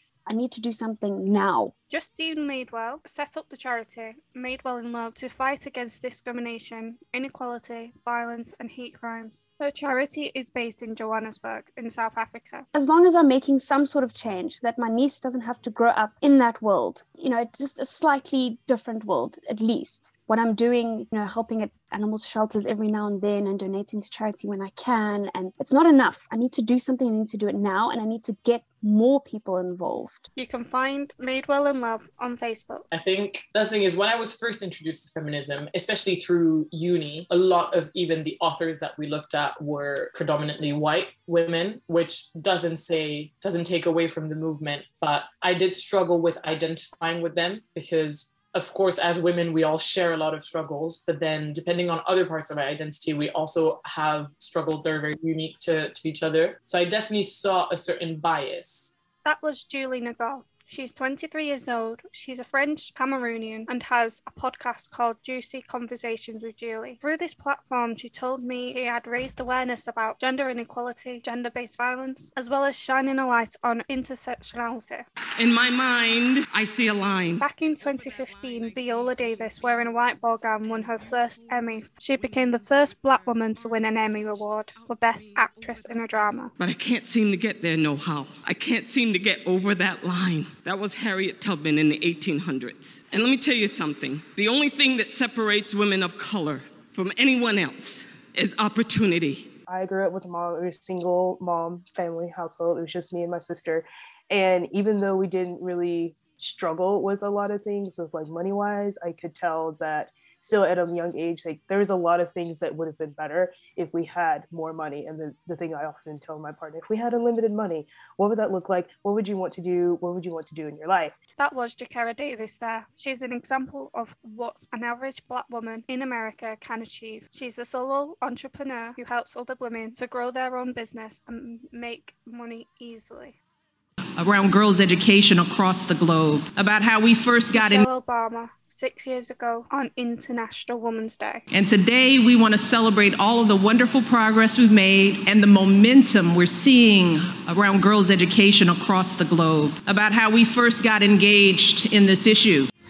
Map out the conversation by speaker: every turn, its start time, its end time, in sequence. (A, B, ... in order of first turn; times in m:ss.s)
0:00.3-0:01.7 A
0:01.9-0:12.6 B
0:12.7-0:30.3 A
0:30.4-0:32.9 B
0:32.9-0:58.9 C
0:59.2-1:15.0 B
1:15.4-1:17.4 D
1:17.4-1:26.5 B
1:26.6-1:39.5 D
1:39.7-2:01.2 E
2:01.4-2:13.4 B
2:14.2-2:17.8 F
2:17.5-2:21.4 B
2:21.5-2:32.7 F